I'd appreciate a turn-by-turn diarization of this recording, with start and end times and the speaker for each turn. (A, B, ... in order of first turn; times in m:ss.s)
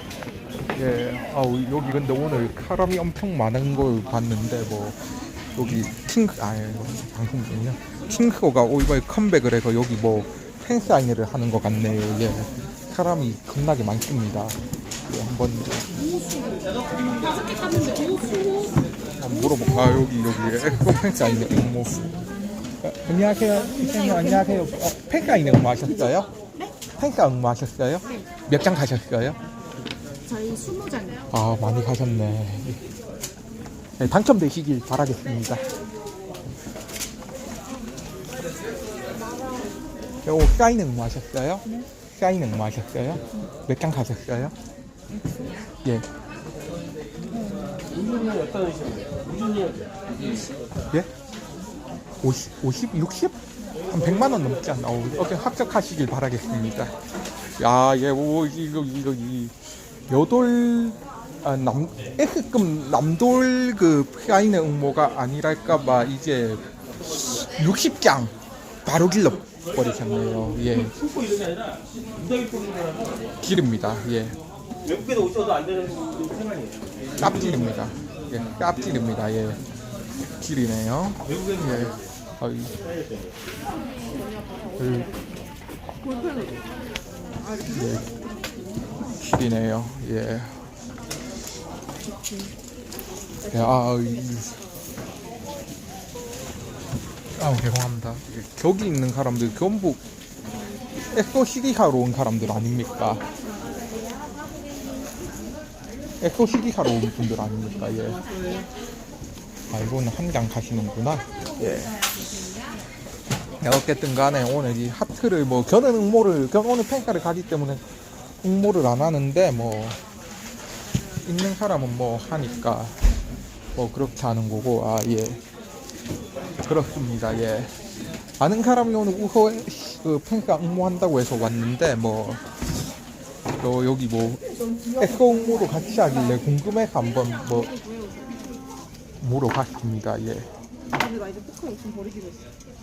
0:00.7-0:05.0 A
0:05.5-0:15.9 A
0:16.0-0:18.8 B
0:19.2-0:22.1 A
0:22.8-0:26.3 A
0:26.9-0:29.4 A
0:30.2-0:31.3 B
0:31.3-0:32.8 A
0:34.0-0:35.6 A
0:40.2-0:44.5 A
0:45.2-0:45.5 B
0:47.3-0:47.9 B
0:47.9-0:50.2 C
0:52.2-0:56.9 A
0:57.6-0:59.6 A
1:00.1-1:11.0 A
1:11.2-1:13.2 C
1:13.4-1:14.4 A
1:14.8-1:16.9 C
1:17.2-1:19.6 A
1:20.3-1:22.7 A
1:24.2-1:25.3 B
1:24.8-1:25.1 A
1:26.0-1:26.6 B
1:27.4-1:28.6 B
1:27.6-1:28.1 A
1:29.0-1:30.6 A
1:32.2-1:32.5 B
1:33.5-1:34.6 A
1:37.4-1:40.0 A
1:41.1-1:43.2 A
1:46.2-1:48.2 A
1:49.7-1:52.0 A
1:53.6-1:57.8 A
1:58.4-2:00.0 A
2:01.2-2:03.0 A
2:03.7-2:05.4 A
2:06.6-2:07.7 A
2:08.4-2:12.5 A
2:13.6-2:17.8 A
2:17.7-2:18.4 B
2:19.2-2:20.5 A
2:20.9-2:22.5 B